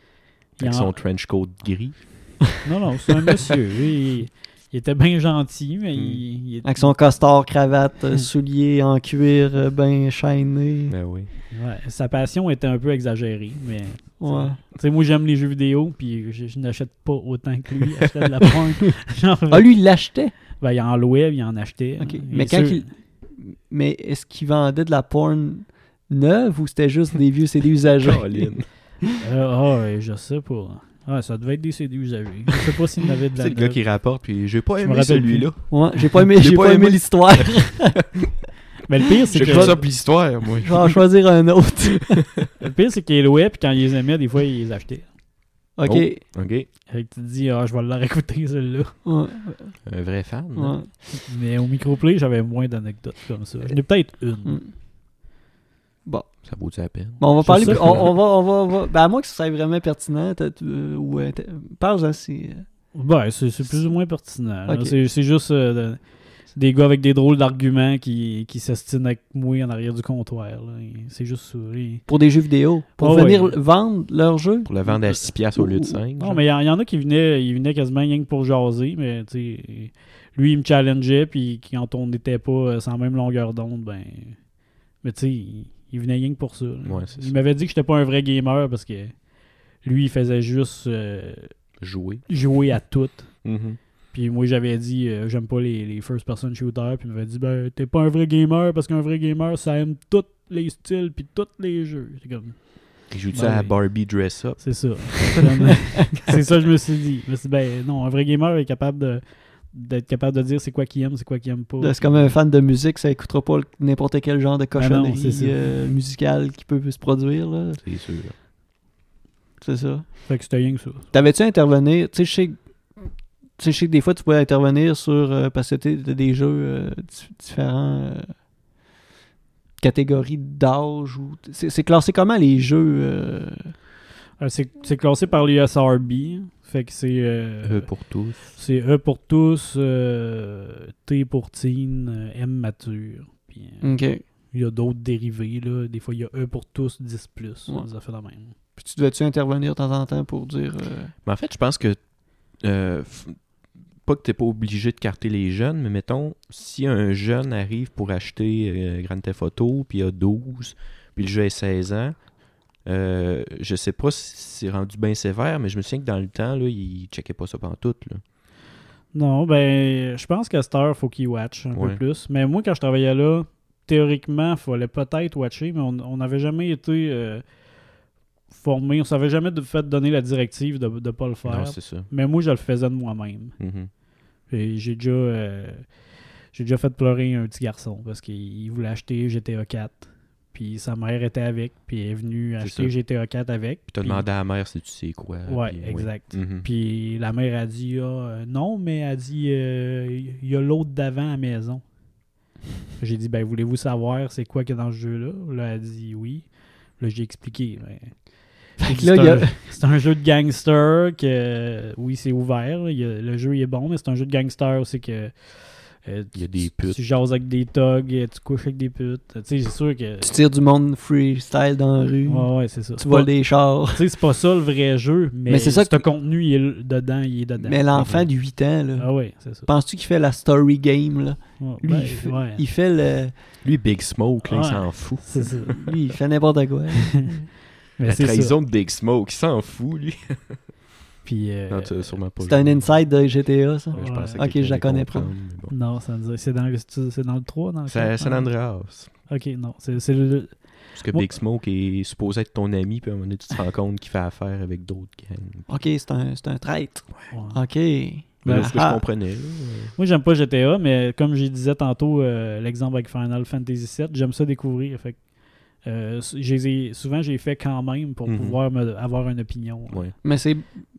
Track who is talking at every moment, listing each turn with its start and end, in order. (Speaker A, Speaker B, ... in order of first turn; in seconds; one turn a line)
Speaker A: 0.6-0.9
Speaker B: 0.6-2.5
Speaker A: 2.6-7.0
Speaker B: 6.0-6.2
Speaker C: 6.6-10.9
Speaker B: 10.9-11.3
Speaker A: 11.5-19.8
Speaker C: 14.2-14.6
Speaker C: 19.5-20.3
Speaker A: 20.6-22.9
Speaker C: 22.0-28.8
Speaker B: 28.0-28.7
Speaker A: 29.2-34.0
Speaker B: 33.4-37.9
Speaker A: 34.8-35.5
Speaker C: 35.7-38.1
Speaker A: 38.9-39.8
Speaker B: 39.3-41.2
Speaker C: 39.4-42.2
Speaker B: 42.1-42.4
Speaker A: 42.6-45.1
Speaker C: 45.8-46.2
Speaker B: 45.9-46.7
Speaker A: 46.9-49.0
Speaker C: 49.0-49.8
Speaker B: 49.9-50.8
Speaker C: 50.6-51.0
Speaker A: 51.1-54.6
Speaker C: 54.4-54.7
Speaker C: 56.0-56.5
Speaker B: 56.4-58.1
Speaker C: 57.2-62.7
Speaker A: 57.4-58.0
Speaker A: 62.9-72.1
Speaker C: 64.7-65.0
Speaker C: 72.1-76.0
Speaker A: 73.0-73.6
Speaker B: 74.7-76.4
Speaker A: 76.2-84.4
Speaker A: 85.0-89.3
Speaker B: 86.8-87.3
Speaker A: 89.8-91.7
Speaker B: 91.8-92.7
Speaker A: 92.3-93.5
Speaker B: 93.4-93.8
Speaker A: 94.1-112.3
Speaker B: 103.1-105.4
Speaker C: 111.8-117.8
Speaker A: 114.8-115.8
Speaker B: 117.8-118.3
Speaker C: 119.6-120.3
Speaker A: 120.3-121.1
Speaker C: 121.1-128.3
Speaker C: 129.8-133.7
Speaker A: 134.4-148.6
Speaker B: 137.6-138.6
Speaker C: 143.8-144.2
Speaker C: 148.8-151.1
Speaker B: 151.2-168.2
Speaker A: 169.1-177.6
Speaker B: 171.7-172.0
Speaker A: 178.5-183.6
Speaker B: 181.4-182.1
Speaker B: 183.6-183.9
Speaker A: 184.5-194.3
Speaker B: 192.6-193.0
Speaker B: 193.9-196.7
Speaker A: 195.5-201.8
Speaker A: 203.0-220.3
Speaker C: 208.8-209.6
Speaker B: 216.3-217.0
Speaker C: 220.2-224.0
Speaker A: 222.3-229.7
Speaker C: 225.5-226.1
Speaker C: 227.6-233.3
Speaker A: 231.6-232.6
Speaker B: 233.6-236.0
Speaker A: 234.4-235.9
Speaker C: 235.8-237.4
Speaker A: 238.0-238.6
Speaker B: 238.1-240.6
Speaker A: 241.2-242.2
Speaker B: 241.7-243.0
Speaker C: 242.4-245.3
Speaker A: 243.9-244.4
Speaker B: 243.9-245.7
Speaker A: 245.7-248.7
Speaker B: 247.9-249.1
Speaker A: 249.3-251.4
Speaker B: 250.9-255.7
Speaker C: 255.7-259.0
Speaker A: 257.3-257.6
Speaker A: 258.4-258.8
Speaker B: 258.4-259.9
Speaker A: 260.0-270.2
Speaker B: 268.3-268.6
Speaker B: 269.9-270.1
Speaker C: 270.2-270.7